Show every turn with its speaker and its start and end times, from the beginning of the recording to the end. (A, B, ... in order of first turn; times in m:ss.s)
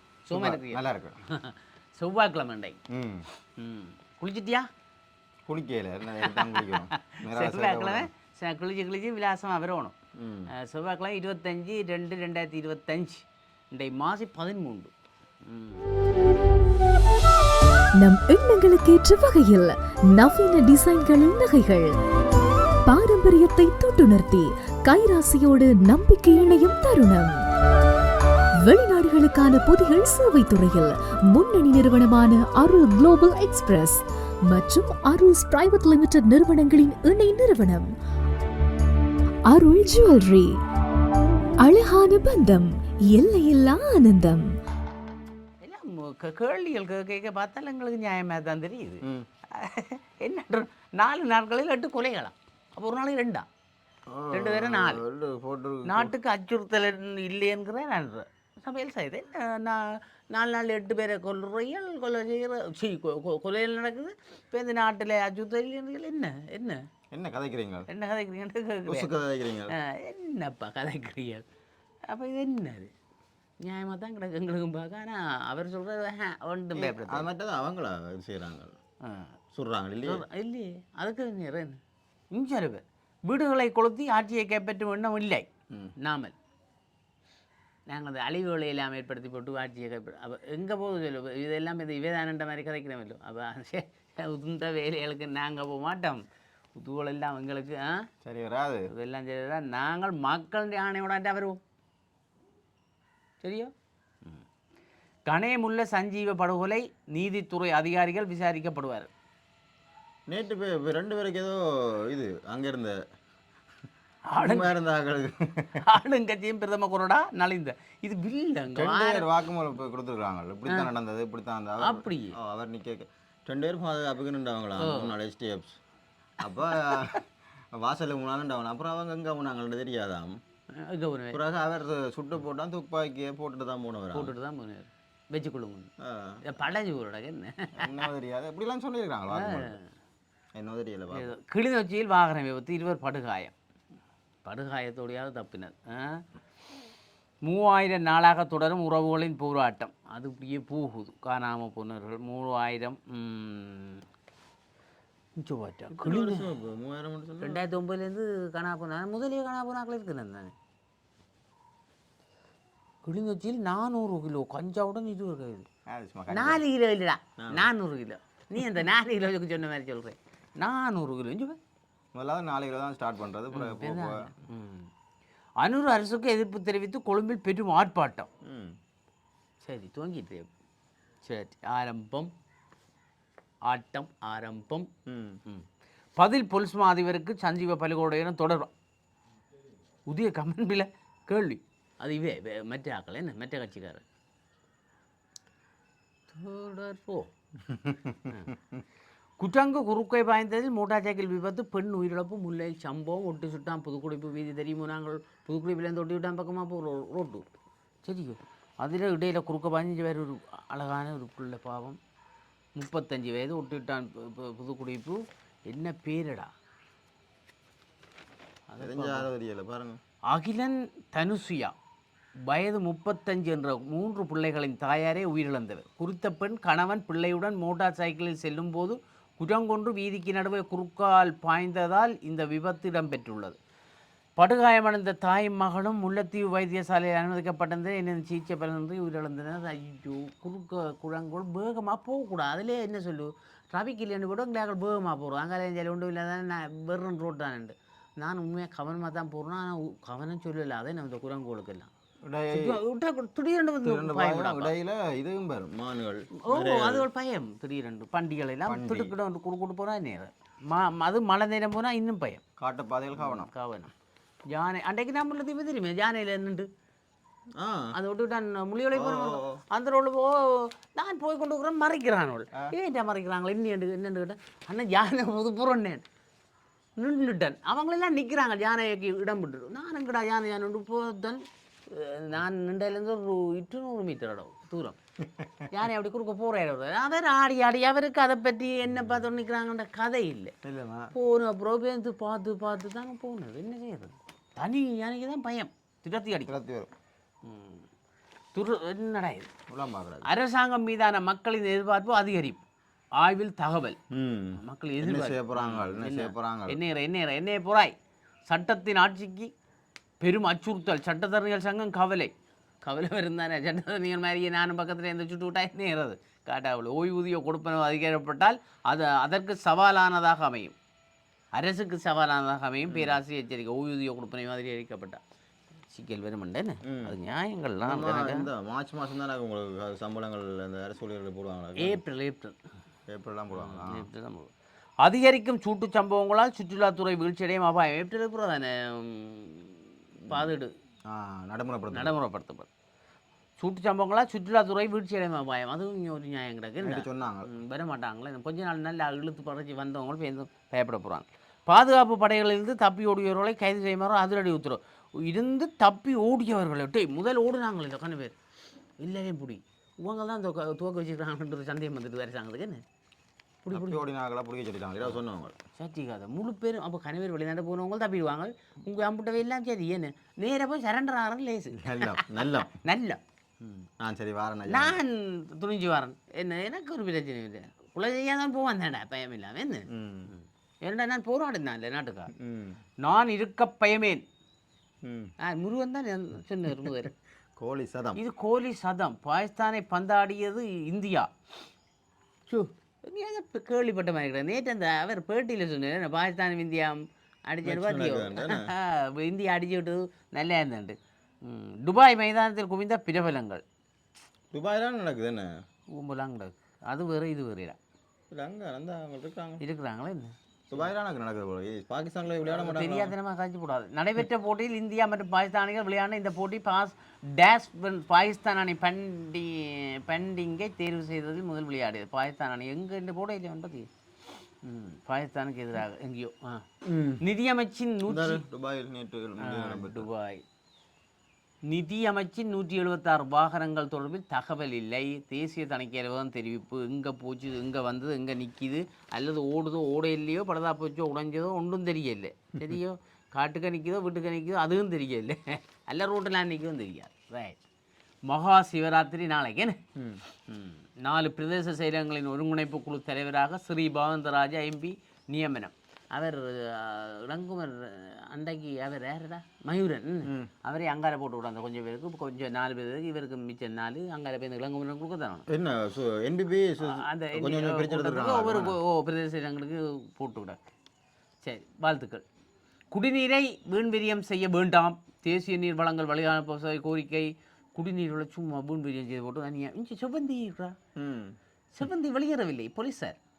0:00.2-0:02.8 A
0:00.3-0:01.2 B
0:02.9-0:03.2 B
0:03.6-0:04.7 A
0:05.5-0:08.1 B
0:06.1-0:09.9 A
0:10.2-0:10.5 B
0:10.5-0:14.9 A
0:15.4-0:15.8 A
0:18.0-0:21.9 C
0:22.8-0:27.4 C
0:28.6-0:37.9 C
0:39.5-0:40.6 C
0:41.6-0:44.6 C
0:45.6-0:53.4 A
0:54.1-0:56.1 B
0:54.3-0:55.0 A
0:55.8-1:06.8 A
1:07.1-1:07.9 B
1:07.9-1:09.1 A
1:08.8-1:09.7 B
1:09.7-1:11.4 A
1:12.1-1:12.9 A
1:13.6-1:17.3 A
1:16.7-1:18.8 B
1:19.0-1:19.3 A
1:19.5-1:20.2 B
1:20.0-1:21.8 A
1:22.3-1:25.5 A
1:26.0-1:26.3 A
1:27.9-1:36.2 A
1:36.7-1:38.1 A
1:38.2-1:38.9 B
1:38.9-1:41.6 A
1:43.4-1:43.7 A
1:45.3-1:49.1 A
1:50.3-1:53.0 B
1:54.3-1:54.7 A
1:54.4-1:55.8 B
1:55.8-1:59.3 A
1:58.7-2:05.8 B
2:01.8-2:02.3 A
2:04.8-2:05.1 A
2:06.4-2:07.2 B
2:06.5-2:07.0 A
2:07.8-2:10.3 B
2:10.7-2:11.4 A
2:11.3-2:14.3 B
2:14.1-2:15.9 A
2:16.0-2:16.4 B
2:16.4-2:18.1 A
2:17.8-2:19.8 B
2:19.3-2:19.9 A
2:20.6-2:21.4 B
2:21.1-2:23.5 A
2:24.4-2:26.2 A
2:27.4-2:34.0 A
2:35.4-2:36.5 A
2:35.9-2:37.6 B
2:37.4-2:40.5 A
2:43.0-2:45.7 A
2:45.9-2:46.6 B
2:46.3-2:51.6 A
2:47.4-2:47.7 B
2:52.1-2:54.3 B
2:53.5-2:54.9 A
2:55.6-2:58.3 A
2:58.4-2:58.7 B
2:59.6-3:00.5 A
3:01.2-3:02.3 A
3:03.6-3:04.9 A
3:05.1-3:05.4 B
3:06.2-3:08.7 A
3:10.1-3:14.0 A
3:16.3-3:17.3 A
3:17.7-3:18.8 B
3:19.4-3:27.4 A
3:28.0-3:32.0 A
3:32.8-3:36.5 A
3:38.7-3:39.3 A
3:38.8-3:40.0 B
3:40.3-3:41.7 A
3:42.4-3:53.6 A
3:54.4-4:11.9 A
4:12.2-4:12.8 B
4:12.5-4:14.7 A
4:13.8-4:17.1 B
4:16.4-4:22.4 A
4:18.6-4:19.1 B
4:22.6-4:23.5 B
4:23.2-4:23.9 A
4:24.5-4:26.7 A
4:27.6-4:27.9 B
4:27.9-4:36.0 A
4:28.9-4:29.6 B
4:37.0-4:45.0 A
4:45.3-4:45.7 B
4:45.7-4:50.5 A
4:50.6-4:51.1 B
4:51.1-4:56.5 A
4:56.5-4:56.9 B
4:57.4-4:57.9 A
4:58.5-4:59.5 A
4:59.7-5:00.3 B
5:00.2-5:02.6 A
5:03.2-5:04.0 A
5:04.1-5:06.8 B
5:04.6-5:07.9 A
5:08.5-5:09.5 A
5:10.2-5:12.3 A
5:12.8-5:20.7 A
5:21.5-5:25.2 A
5:22.9-5:23.2 B
5:25.9-5:28.5 A
5:26.8-5:27.2 B
5:27.8-5:32.0 B
5:31.8-5:32.6 A
5:33.1-5:34.1 B
5:33.5-5:34.5 A
5:35.0-5:40.7 A
5:40.3-5:40.5 B
5:41.1-5:42.1 B
5:41.9-5:42.7 A
5:43.6-5:58.3 A
5:46.8-5:47.5 B
5:59.0-6:02.8 A
6:03.6-6:04.0 A
6:03.7-6:05.6 B
6:05.8-6:13.8 A
6:11.7-6:12.7 B
6:14.0-6:15.0 B
6:14.7-6:22.3 A
6:19.9-6:20.3 B
6:22.4-6:22.8 B
6:23.0-6:24.2 A
6:25.0-6:25.3 B
6:25.4-6:27.1 A
6:27.6-6:28.2 B
6:28.2-6:31.3 A
6:32.5-6:43.6 A
6:37.6-6:38.7 B
6:44.5-6:45.5 B
6:45.9-6:47.8 A
6:48.3-6:49.6 B
6:49.6-6:50.9 A
6:50.7-6:53.1 B
6:52.4-7:03.9 A
7:04.6-7:06.6 A
7:06.8-7:07.2 B
7:07.2-7:08.4 A
7:08.0-7:10.1 B
7:09.4-7:10.4 A
7:11.7-7:27.6 A
7:28.2-7:29.8 A
7:30.0-7:30.2 B
7:30.5-7:45.4 A
7:40.2-7:40.5 B
7:45.5-7:48.8 B
7:46.8-7:50.7 A
7:51.4-7:52.2 A
7:52.9-8:00.8 A
8:01.0-8:01.3 B
8:01.7-8:03.2 A